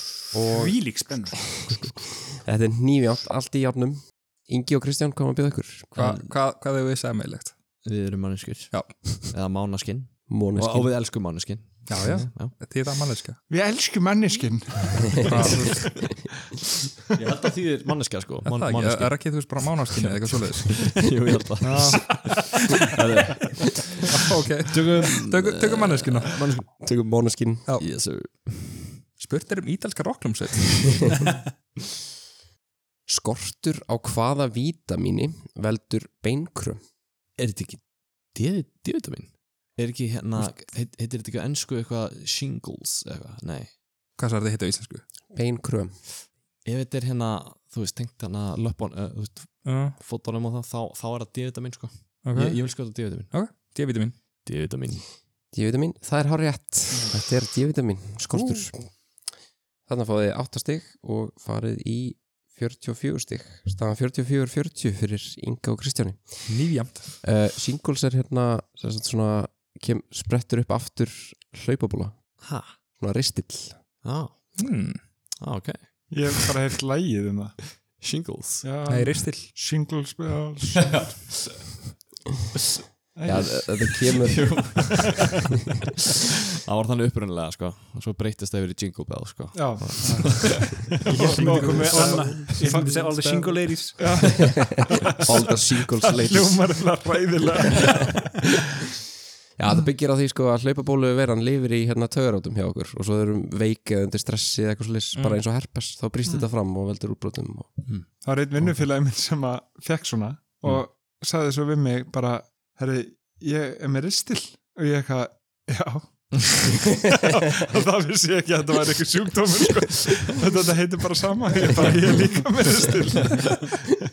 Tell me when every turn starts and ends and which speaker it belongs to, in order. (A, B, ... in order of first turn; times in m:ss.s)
0:00.3-0:00.8 A
0:00.5-0:01.8 B
0:01.8-0:06.0 A
0:06.0-0:07.6 C
0:06.0-0:06.2 D
0:07.8-0:12.6 D
0:08.7-0:09.3 C
0:10.3-0:10.9 A
0:11.9-0:13.4 C
0:13.5-0:15.3 E
0:15.2-0:16.2 C
0:17.2-0:24.2 D
0:18.4-0:21.1 C
0:21.6-0:22.4 C
0:24.1-0:26.7 C
0:24.7-0:26.7 D
0:26.8-0:27.6 A
0:27.8-0:29.0 D
0:29.2-0:31.2 C
0:33.1-0:36.8 A
0:37.4-0:37.8 D
0:38.3-0:43.7 D
0:44.2-0:45.0 C
0:45.3-0:46.0 A
0:46.6-0:53.3 D
0:49.6-0:50.0 C
0:52.2-0:54.2 C
0:54.4-0:55.1 D
0:55.5-0:58.9 A
0:59.9-1:06.5 A
1:06.5-1:07.1 C
1:07.2-1:12.2 A
1:12.4-1:12.8 D
1:13.0-1:13.8 A
1:14.0-1:14.6 D
1:14.6-1:15.0 C
1:15.4-1:16.5 D
1:16.1-1:17.6 E
1:17.7-1:18.6 D
1:18.6-1:21.1 E
1:18.9-1:19.5 C
1:20.8-1:21.8 D
1:23.2-1:23.6 E
1:23.2-1:25.0 A
1:23.6-1:25.3 D
1:26.6-1:33.1 D
1:29.5-1:38.4 E
1:31.1-1:34.0 B
1:31.4-1:32.0 C
1:34.6-1:36.6 A
1:39.6-1:47.8 A
1:48.2-2:04.0 E